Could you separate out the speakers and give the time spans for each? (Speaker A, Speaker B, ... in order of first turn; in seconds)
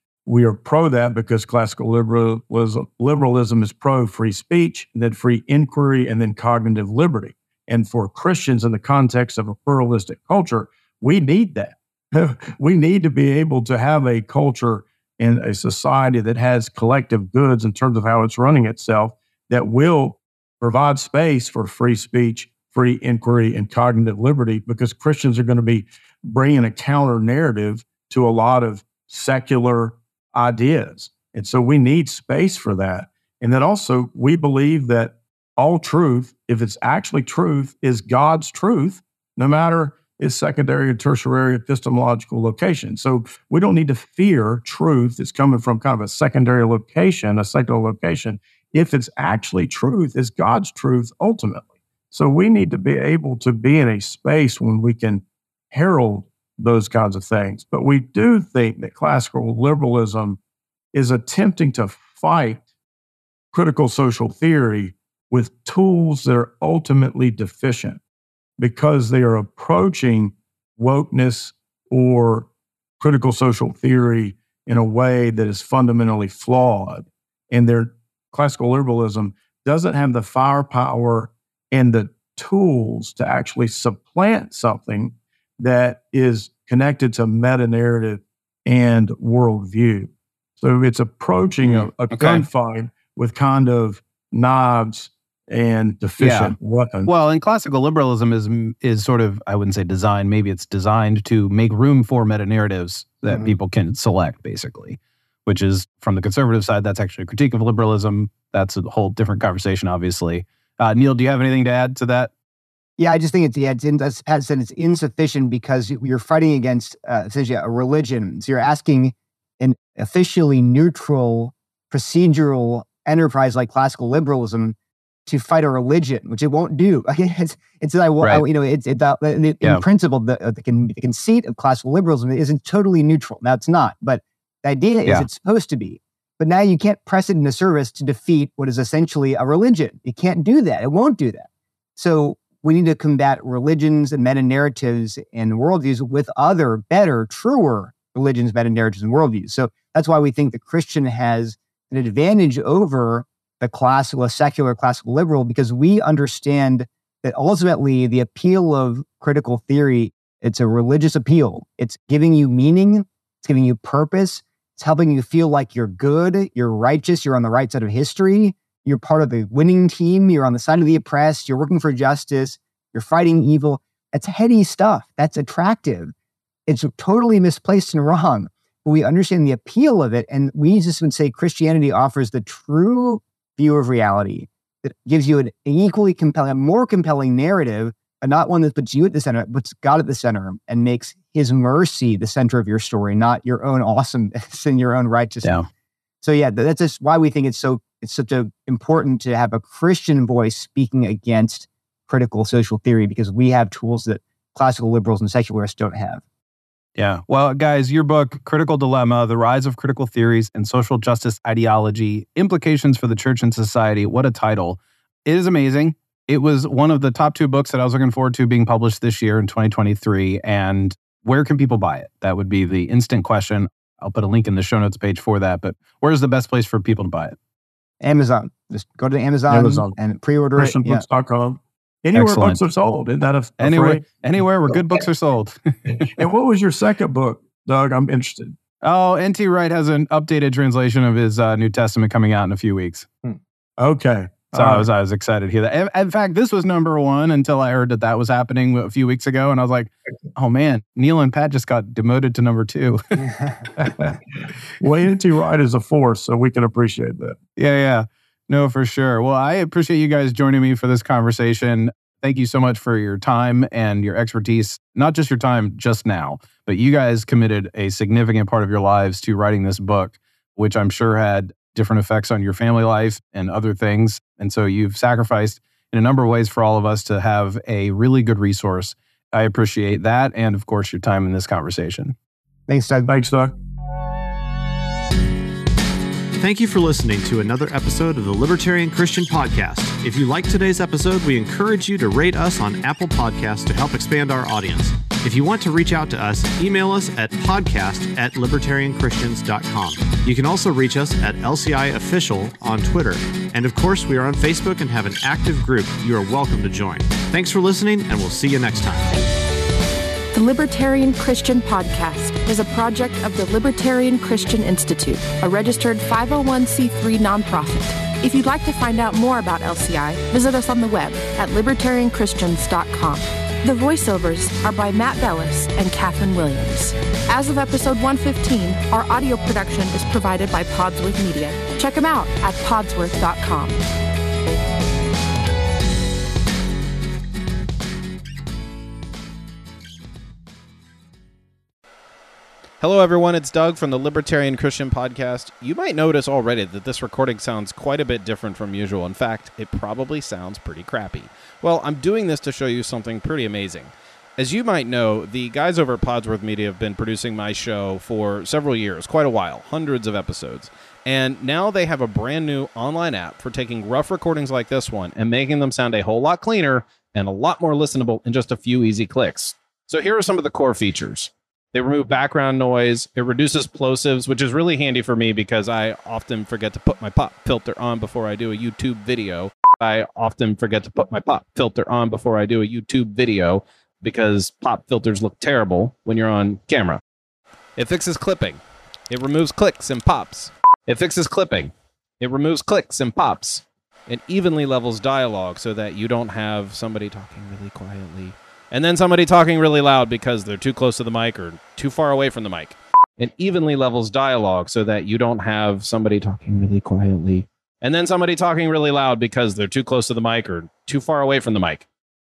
Speaker A: 0.2-60.4, 60.9-62.6, 63.5-68.0, 68.6-72.5, 73.0-97.1, 229.5-229.9, 230.6-234.7, 236.1-238.6, 243.8-244.9, 253.8-254.2, 254.8-257.4, 283.1-283.5
Speaker B: 91.6-92.5, 96.2-112.3, 207.0-227.3, 232.1-232.6, 233.6-236.2, 238.8-243.1, 244.5-253.3, 257.6-282.1, 342.8-387.0, 387.8-388.6, 389.1-411.8
Speaker C: 113.0-176.1, 176.7-195.5, 196.2-206.2, 228.0-231.0, 282.7-283.1
Speaker D: 286.4-309.2
Speaker E: 310.3-333.8